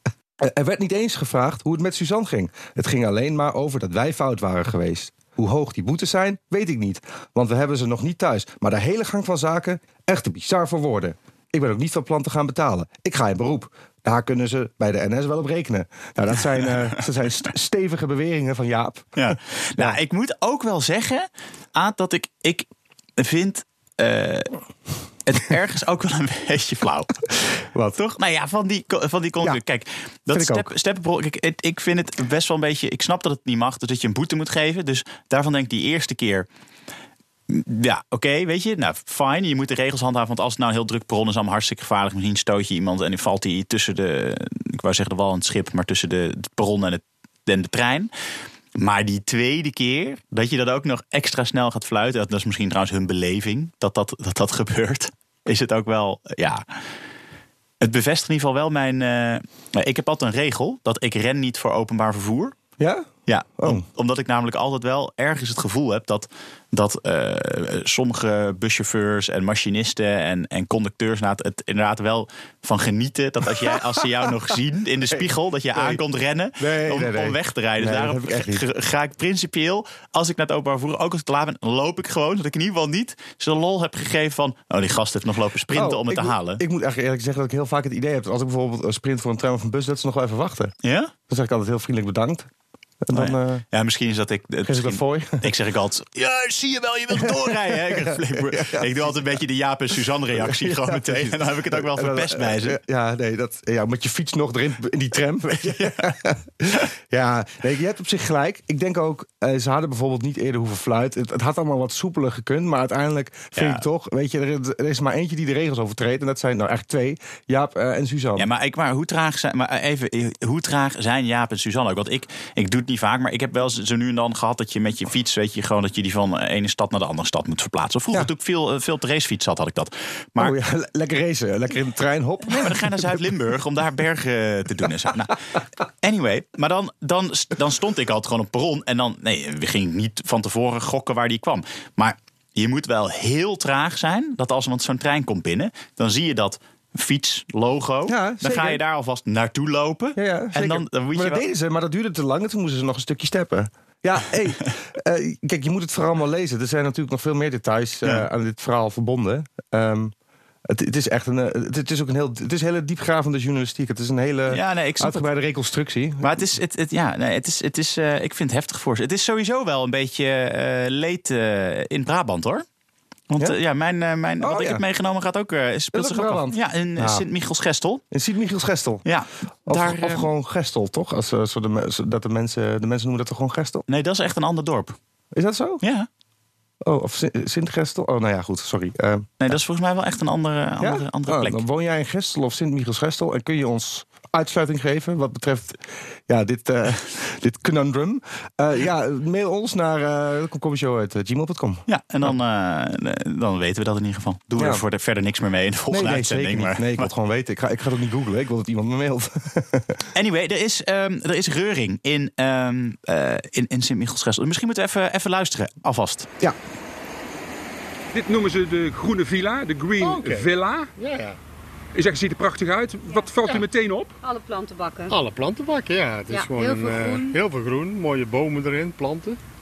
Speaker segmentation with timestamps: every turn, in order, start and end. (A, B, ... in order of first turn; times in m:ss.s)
0:00.4-0:19.3 A
0:19.2-0:22.6 B
0:23.2-0:24.5 B
0:25.2-0:27.1 B
0:27.7-0:28.0 A
0:28.0-0:36.5 B
0:30.3-0:30.7 A
0:37.5-0:48.1 B
0:48.7-0:56.6 B
0:57.8-1:02.6 B
1:02.8-1:03.8 A
1:03.3-1:26.6 B
1:15.1-1:16.0 A
1:16.6-1:18.6 A
1:25.7-1:30.7 A
1:30.8-1:31.1 B
1:31.3-1:32.5 A
1:33.0-1:33.6 A
1:33.1-1:42.8 B
1:34.6-1:35.5 A
1:37.1-1:38.9 A
1:40.3-1:58.5 A
1:45.7-1:46.1 B
1:53.5-1:53.8 B
1:58.4-2:10.5 B
2:10.4-2:13.3 A
2:12.4-2:15.4 B
2:16.0-2:31.4 B
2:28.1-2:28.8 A
2:30.2-2:40.1 A
2:40.6-2:46.4 A
2:44.5-2:45.3 B
2:46.2-2:52.6 B
2:53.3-2:58.0 B
2:54.4-2:54.8 A
2:55.9-2:57.2 A
2:58.1-2:59.0 A
2:59.0-3:00.3 B
2:59.6-3:03.8 A
3:03.9-3:05.0 B
3:05.3-3:05.8 A
3:05.8-3:06.1 B
3:06.8-3:09.3 A
3:09.4-3:11.6 B
3:10.8-3:22.3 A
3:21.9-3:27.1 B
3:24.6-3:24.8 A
3:25.9-3:30.0 A
3:30.1-3:36.3 B
3:38.1-3:40.9 C
3:40.0-3:40.4 D
3:41.0-3:41.4 D
3:41.9-3:44.1 C
3:44.2-3:45.2 E
3:45.1-3:49.4 D
3:46.3-3:47.4 E